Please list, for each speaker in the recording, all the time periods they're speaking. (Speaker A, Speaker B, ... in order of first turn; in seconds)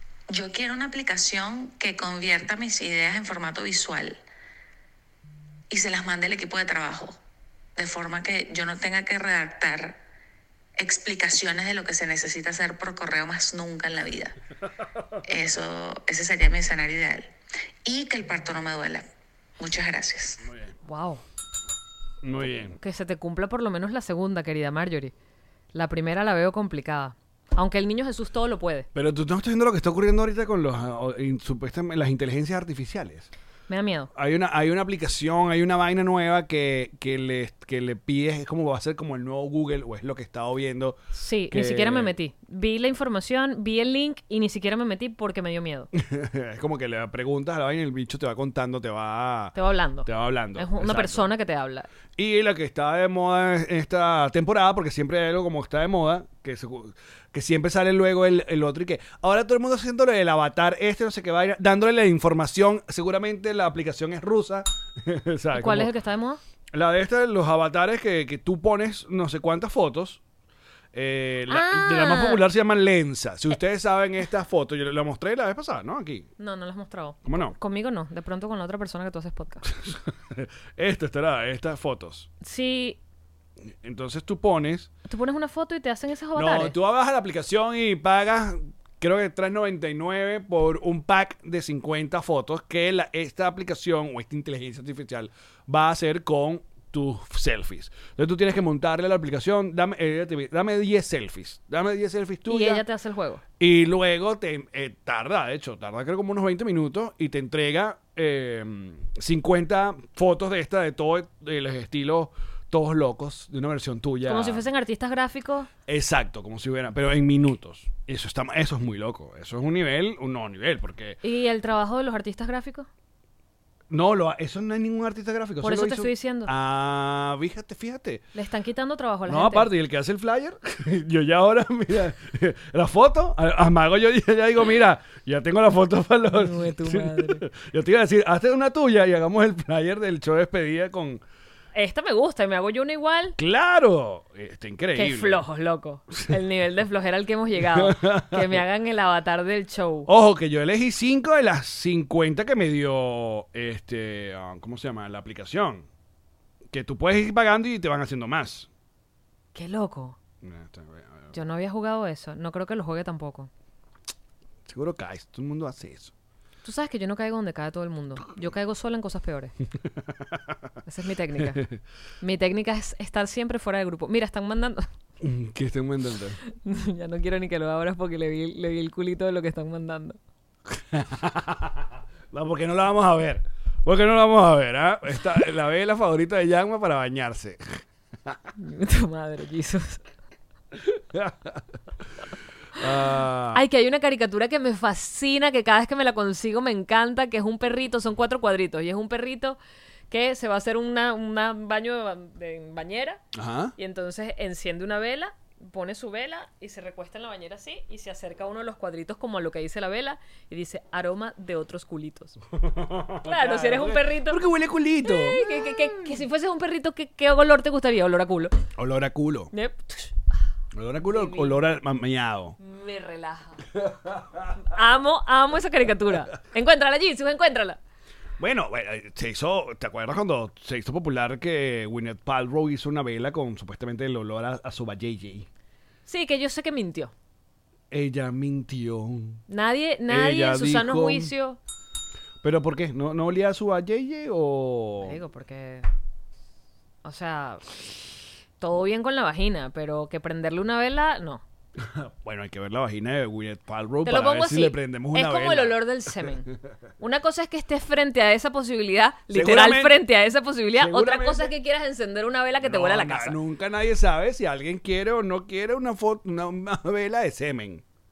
Speaker A: 0.3-4.2, 5.7-7.2, 7.8-10.0, 10.8-14.3, 15.2-17.3, 17.8-19.1, 19.6-20.4
Speaker B: 20.4-20.8, 22.2-22.8, 28.9-33.3, 34.1-41.0, 41.5-42.1, 45.9-49.5, 50.0-51.3, 52.2-65.9, 66.7-70.2, 70.9-76.3, 77.2-77.6, 79.8-82.3, 83.8-84.9, 86.3-102.8, 103.6-114.6, 115.9-121.2, 123.9-128.2, 129.3-141.2, 143.4-145.4, 147.6-148.6, 150.1-155.9, 156.7-158.7, 160.4-161.3, 164.7-166.1, 169.8-170.6, 171.4-171.8, 175.2-176.4, 180.7-188.4, 190.7-191.7, 192.8-193.6, 203.3-203.7, 212.5-215.9, 218.8-219.5, 220.7-222.6, 223.7-224.6, 228.4-235.5, 237.9-239.4, 240.1-241.3, 242.4-245.2, 251.8-256.3, 259.3-259.9, 260.8-261.5, 262.6-267.8
Speaker C: 20.8-21.2, 22.7-25.1, 25.7-28.9, 33.7-34.1, 41.1-45.9, 49.5-51.9, 65.5-66.4, 71.5-72.4, 76.4-79.6, 82.4-83.0, 85.1-86.7, 102.5-103.4, 114.2-115.7, 121.2-122.9, 125.6-126.5, 128.3-129.7, 136.3-137.4, 141.7-143.4, 144.9-150.1, 159.5-160.2, 161.3-163.5, 166.6-169.5, 170.8-171.6, 172.2-174.9, 176.6-180.2, 188.6-190.0, 193.5-199.6, 200.1-203.2, 203.8-212.4, 213.2-214.4, 215.0-218.5, 219.5-220.2, 221.0-221.6, 222.6-223.6, 224.6-227.8, 236.1-237.1, 239.5-241.6, 245.0-245.9, 247.0-247.8, 248.6-251.4, 254.0-256.5, 257.0-263.4